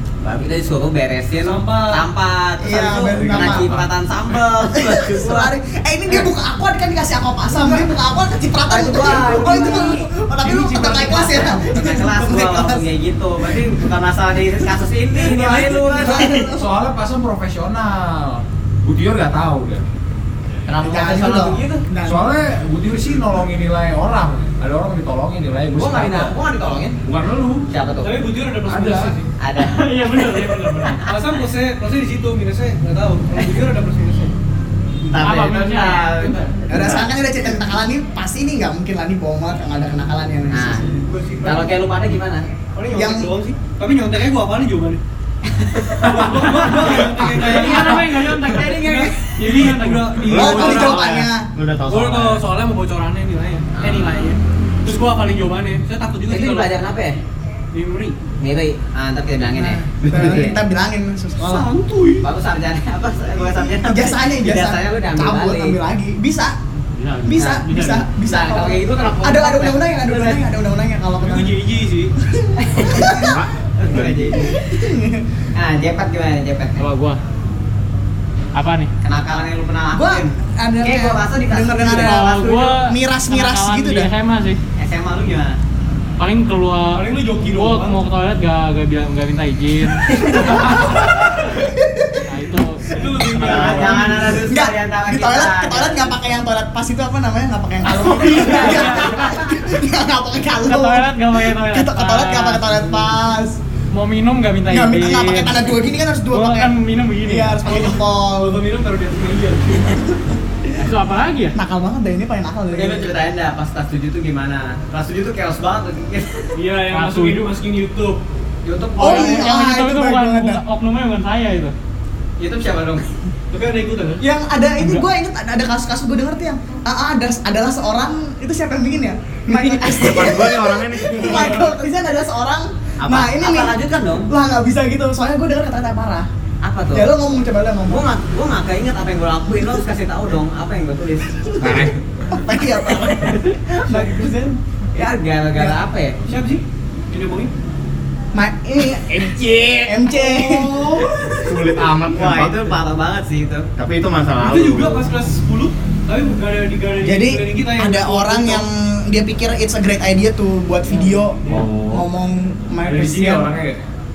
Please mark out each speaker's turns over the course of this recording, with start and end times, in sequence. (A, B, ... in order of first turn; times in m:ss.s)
0:00.2-0:05.5 A
0:01.3-0:02.1 B
0:02.6-0:03.7 C
0:03.0-0:03.8 D
0:04.7-0:12.8 C
0:08.7-0:16.5 A
0:15.2-0:16.7 C
0:15.3-0:19.8 D
0:20.6-0:21.8 A
0:20.9-0:22.3 C
0:22.0-0:26.4 D
0:25.7-0:27.0 A
0:27.0-0:27.6 D
0:27.7-0:28.1 A
0:28.0-0:29.3 B
0:28.6-0:29.2 D
0:29.4-0:30.1 A
0:29.6-0:31.0 E
0:31.0-0:34.3 B
0:35.1-0:36.9 A
0:35.2-0:36.5 E
0:36.7-0:41.0 C
0:40.5-0:42.5 A
0:41.1-0:41.7 B
0:42.7-0:45.0 B
0:42.9-0:43.3 C
0:45.7-0:51.2 B
0:46.3-0:51.2 E
0:50.3-0:51.5 C
0:50.3-0:50.9 F
0:51.5-0:52.4 F
0:51.8-0:56.7 B
0:53.7-0:54.3 A
0:56.3-0:57.2 A
0:57.7-0:58.2 B
0:58.4-1:00.6 A
0:59.5-1:01.7 C
1:01.5-1:02.2 B
1:02.2-1:05.8 A
1:03.7-1:06.5 C
1:06.9-1:08.1 E
1:07.2-1:11.6 C
1:07.4-1:07.6 A
1:08.2-1:10.4 A
1:11.2-1:12.1 B
1:12.2-1:13.4 C
1:12.6-1:14.5 A
1:12.8-1:14.4 F
1:14.4-1:15.2 C
1:15.6-1:16.8 A
1:16.8-1:17.2 E
1:18.5-1:18.9 E
1:19.0-1:22.8 A
1:19.9-1:24.1 C
1:21.9-1:24.6 E
1:24.8-1:25.6 A
1:26.2-1:30.1 E
1:26.9-1:28.0 B
1:30.2-1:32.2 C
1:32.3-1:34.2 E
1:32.9-1:34.2 B
1:33.4-1:36.1 A
1:33.4-1:43.6 C
1:37.9-1:39.4 E
1:38.2-1:39.0 B
1:40.6-1:43.1 E
1:43.9-1:45.8 E
1:44.7-1:48.6 C
1:46.3-1:47.9 E
1:47.6-1:50.0 B
1:50.8-1:51.6 E
1:51.5-1:53.1 C
1:52.7-1:56.5 A
1:56.5-1:59.4 B
1:56.9-1:57.4 E
1:58.7-1:59.2 A
1:59.0-2:00.6 C
1:59.0-2:01.7 E
2:02.4-2:03.0 A
2:03.5-2:04.2 B
2:04.2-2:13.8 C
2:04.8-2:05.0 E
2:09.5-2:11.7 F
2:13.0-2:14.3 A
2:14.3-2:16.3 C
2:16.6-2:17.1 A
2:16.9-2:18.0 C
2:17.8-2:21.9 A
2:21.6-2:22.0 F
2:22.2-2:24.6 C
2:23.0-2:23.6 A
2:23.9-2:24.5 B
2:24.9-2:26.2 A
2:26.2-2:27.5 B
2:28.3-2:31.7 C
2:29.1-2:30.0 F
2:30.0-2:31.0 B
2:31.4-2:32.8 F
2:32.1-2:33.7 A
2:33.8-2:35.0 F
2:34.4-2:38.7 B
2:37.0-2:43.5 C
2:41.0-2:41.7 B
2:41.5-2:41.9 D
2:42.8-2:43.8 D